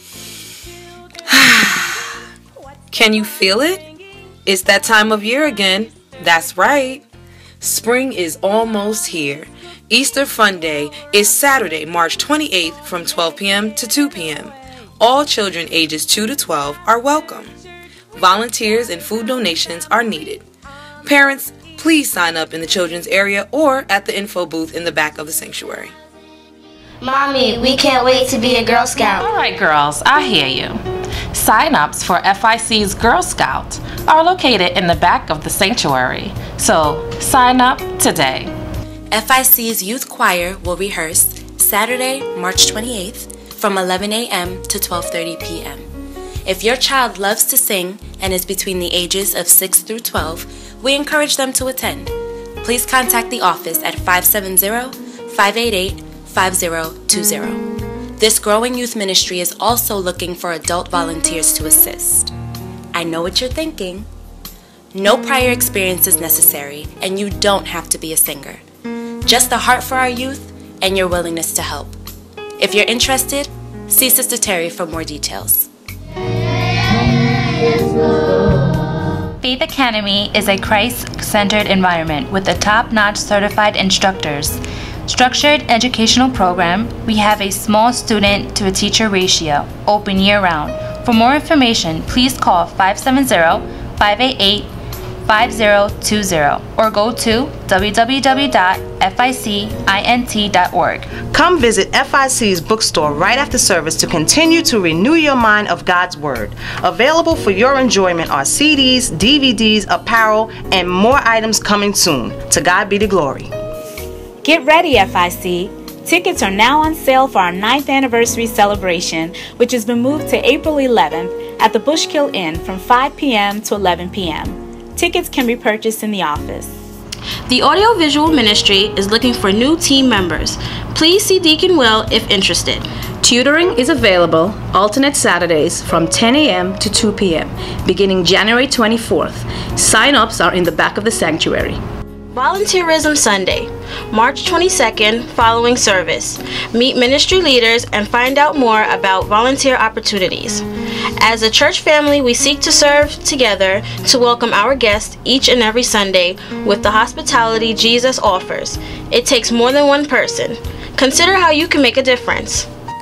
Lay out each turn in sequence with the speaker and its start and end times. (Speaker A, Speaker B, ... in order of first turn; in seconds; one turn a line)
Speaker A: 1.3-2.0
Speaker A: 2.9-3.9
Speaker A: 4.5-7.1
Speaker A: 7.6-17.5
Speaker A: 18.2-20.4
Speaker A: 21.0-25.9
Speaker B: 27.0-29.2
Speaker C: 29.2-38.5
Speaker D: 39.1-45.8
Speaker D: 46.5-57.6
Speaker D: 58.2-62.3
Speaker D: 62.9-64.1
Speaker D: 64.9-68.6
Speaker D: 69.2-72.0
Speaker D: 72.6-75.7
Speaker E: 79.4-94.7
Speaker E: 95.3-101.1
Speaker F: 101.3-113.5
Speaker G: 114.4-126.7
Speaker H: 127.5-132.8
Speaker I: 133.2-141.8
Speaker H: 142.3-150.7
Speaker H: 151.2-162.7